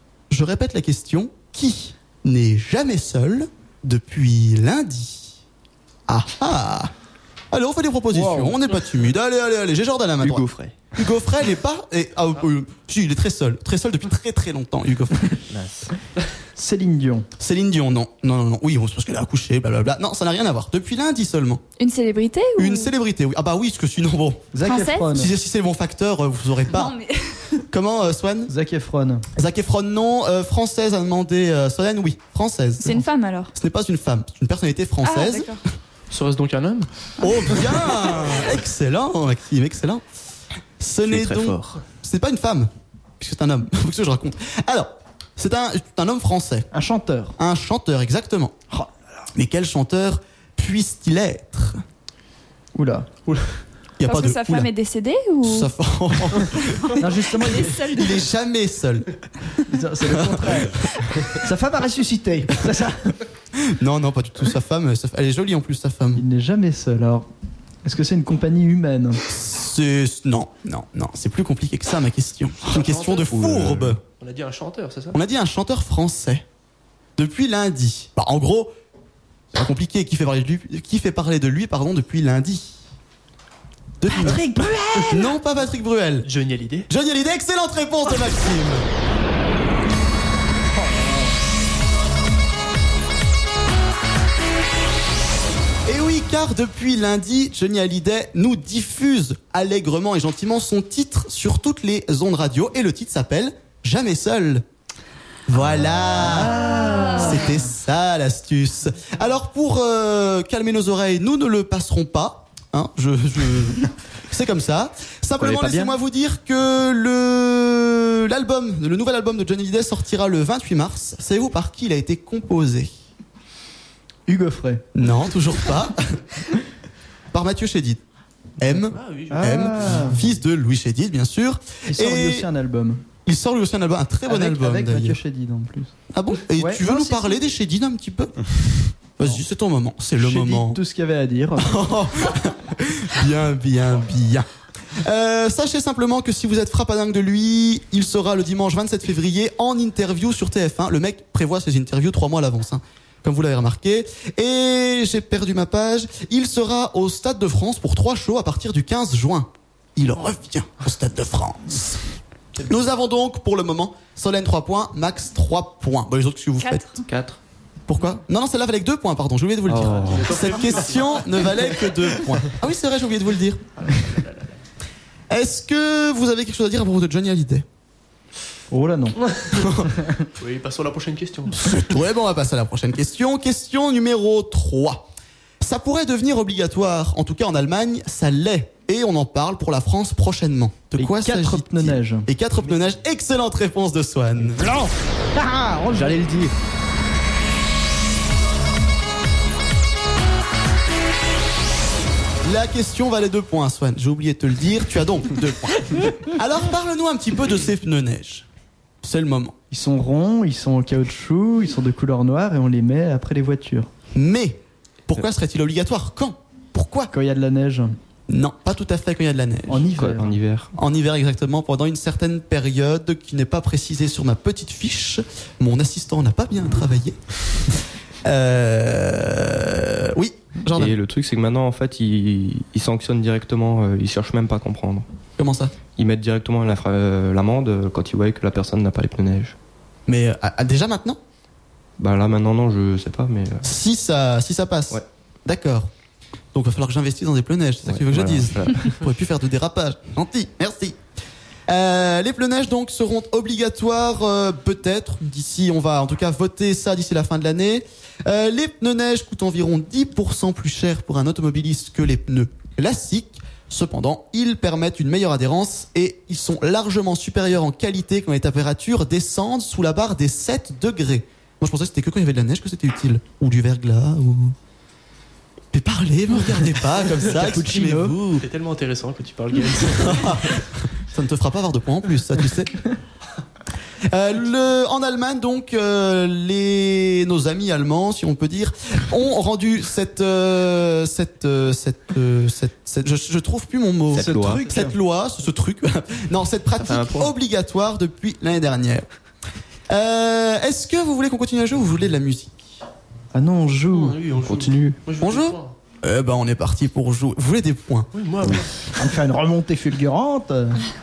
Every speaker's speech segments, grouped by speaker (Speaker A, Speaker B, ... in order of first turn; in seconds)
Speaker A: 0.3-5.4, 6.1-6.9, 7.5-15.4, 17.4-21.6, 22.6-26.9, 27.7-28.5, 29.4-35.5, 37.2-40.0, 40.8-46.7, 47.4-48.5, 49.3-51.8, 54.0-54.7, 55.4-56.8, 57.8-59.1, 60.0-60.9, 63.5-66.2, 69.3-74.0, 75.1-76.4, 77.2-78.7, 79.5-82.8, 84.0-84.4, 85.0-86.3, 86.9-88.8, 95.8-104.6, 105.5-122.9, 124.9-126.2, 127.3-128.0, 128.6-132.5, 133.2-135.2, 136.1-140.8, 141.6-162.0, 162.6-167.0, 167.9-173.6, 175.3-177.7, 179.6-179.9, 181.5-185.1, 185.6-194.7, 202.4-208.4, 209.0-209.6, 214.1-217.1, 218.3-219.9, 220.7-230.9, 235.4-235.7, 240.1-241.2, 243.6-245.9, 246.5-251.0, 251.7-274.5, 275.7-278.5, 280.0-282.8, 284.0-299.1, 299.9-302.6, 305.2-308.1
Speaker B: 8.1-8.6, 16.6-17.3, 24.5-25.3, 28.5-29.2, 46.7-47.4, 52.7-53.1, 57.0-57.8, 59.7-63.2, 66.1-67.3, 67.8-69.2, 84.1-85.1, 90.7-91.4, 106.2-107.6, 115.4-115.9, 124.3-124.8, 129.3-130.2, 131.9-133.0, 134.3-135.9, 136.6-136.9, 140.2-141.8, 178.7-179.2, 190.9-192.3, 194.6-196.5, 209.7-213.9, 217.1-217.9, 219.7-220.4, 277.3-278.2, 294.1-294.9, 303.3-304.9, 309.0-310.8
Speaker C: 10.2-10.8, 15.5-15.9, 41.0-41.8, 73.3-74.0, 167.0-167.4, 169.7-170.3, 219.9-220.7, 230.7-235.1, 235.9-239.5, 242.0-243.7, 247.8-249.0, 294.1-294.6, 296.8-297.3
Speaker D: 21.8-22.9, 24.6-25.1, 26.7-27.6, 32.8-33.5, 35.0-35.6, 54.0-55.7, 56.6-58.1, 166.6-167.0
Speaker E: 36.1-38.0, 53.3-53.6, 72.6-73.4, 74.0-75.2, 86.2-86.9, 128.8-129.7, 169.9-171.6, 173.8-174.5, 179.2-179.7, 180.4-181.8, 278.4-280.6, 303.9-305.8, 308.1-308.8